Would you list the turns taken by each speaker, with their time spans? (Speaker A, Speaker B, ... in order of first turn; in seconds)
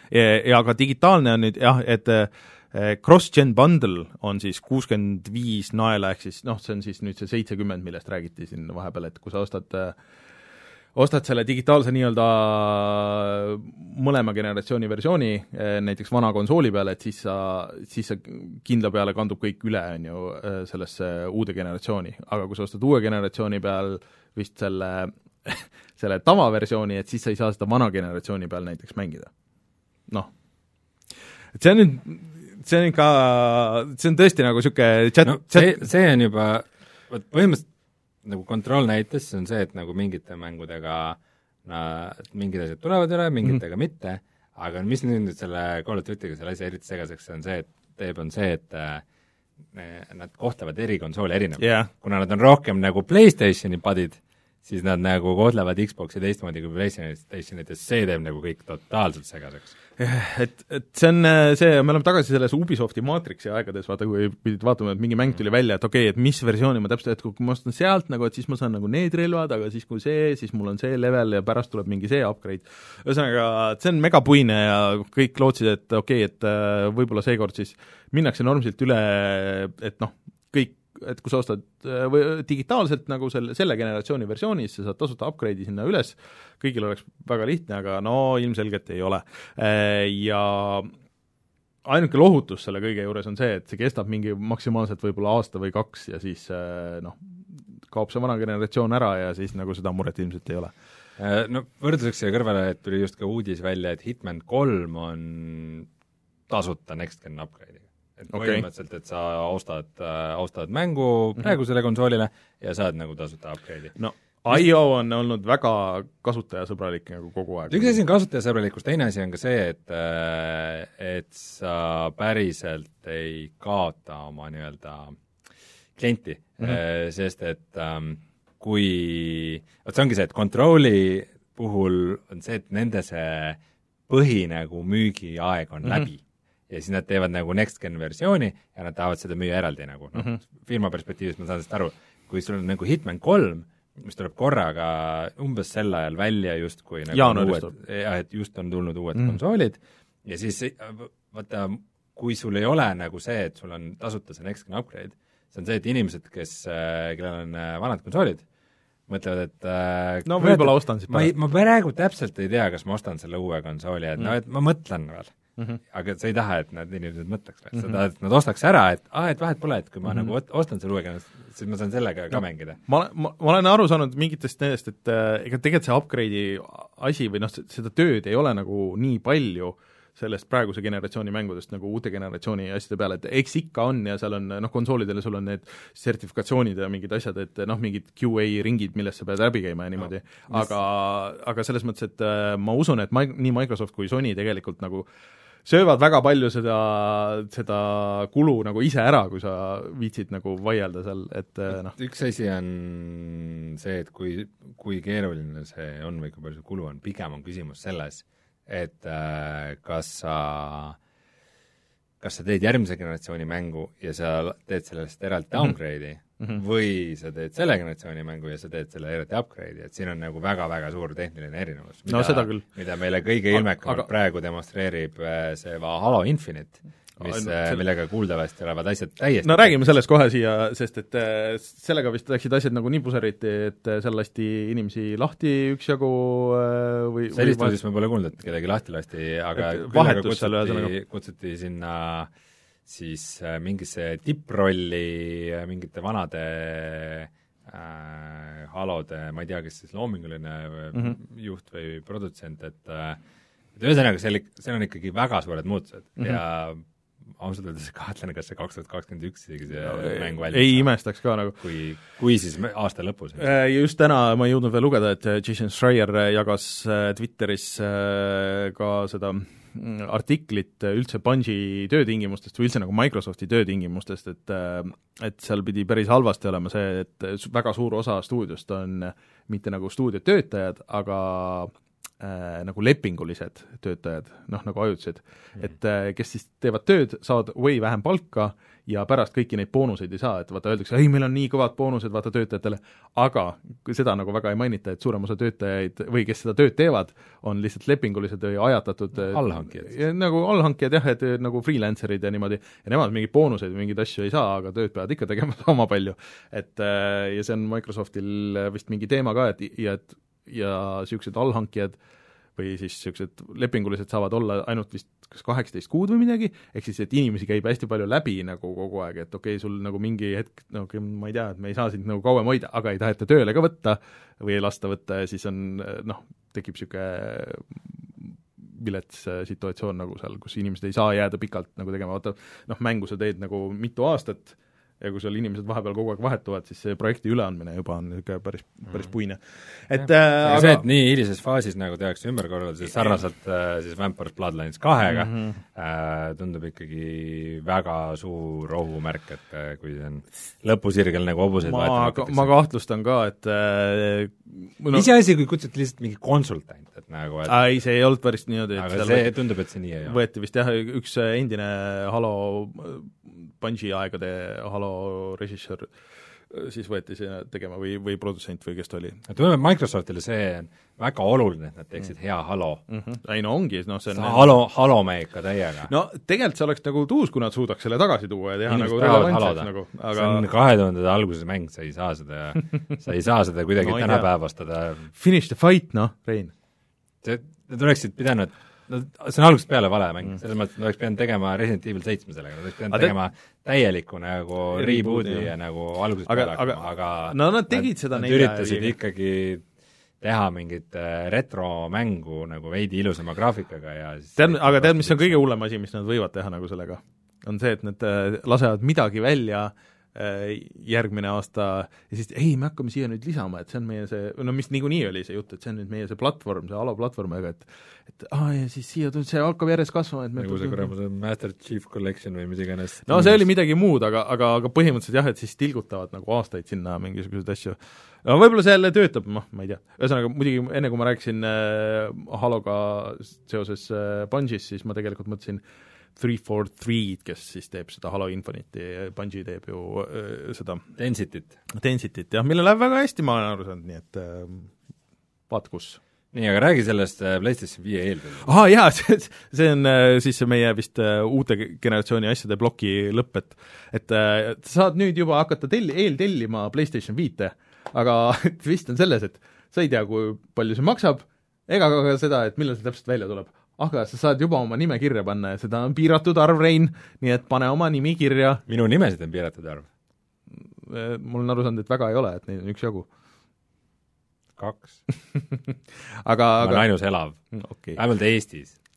Speaker A: 0.1-10.0, 10.9-29.3, 31.5-35.9, 51.6-51.9, 60.0-90.9, 91.8-97.2, 97.9-100.7, 108.3-108.6, 114.0-118.0, 147.1-147.7, 160.2-161.3, 172.3-195.1, 195.7-201.9, 222.1-222.6, 223.5-224.1, 227.2-227.8, 229.4-237.8, 239.6-240.9, 259.8-261.6, 263.4-312.0, 312.6-340.8, 345.1-345.6, 351.6-355.1, 357.5-359.3, 360.1-365.9, 366.5-369.2, 372.9-374.5, 375.9-380.4, 383.8-384.3, 385.1-386.5, 394.7-395.5, 396.2-398.9, 404.4-420.9, 423.1-435.6, 436.2-440.8, 441.7-444.7, 445.5-446.0, 448.4-468.6, 470.8-473.1, 475.3-475.7, 476.2-476.9, 477.5-478.0
Speaker B: 35.2-37.6, 38.2-49.0, 49.7-59.7, 101.2-105.9, 106.5-113.9, 117.7-125.2, 126.0-158.4, 159.1-165.3, 165.9-172.8, 201.7-211.0, 212.2-229.9, 237.3-242.3, 242.8-253.2, 253.8-256.8, 257.3-260.9, 261.6-263.5, 299.2-299.9, 339.9-352.5, 354.9-357.6, 358.7-360.2, 369.3-372.8, 374.1-375.9, 378.7-385.1, 387.2-399.6, 400.2-405.4, 420.4-423.4, 440.9-441.6, 446.3-448.5, 468.7-469.9, 474.6-475.0, 476.6-477.4, 477.9-478.8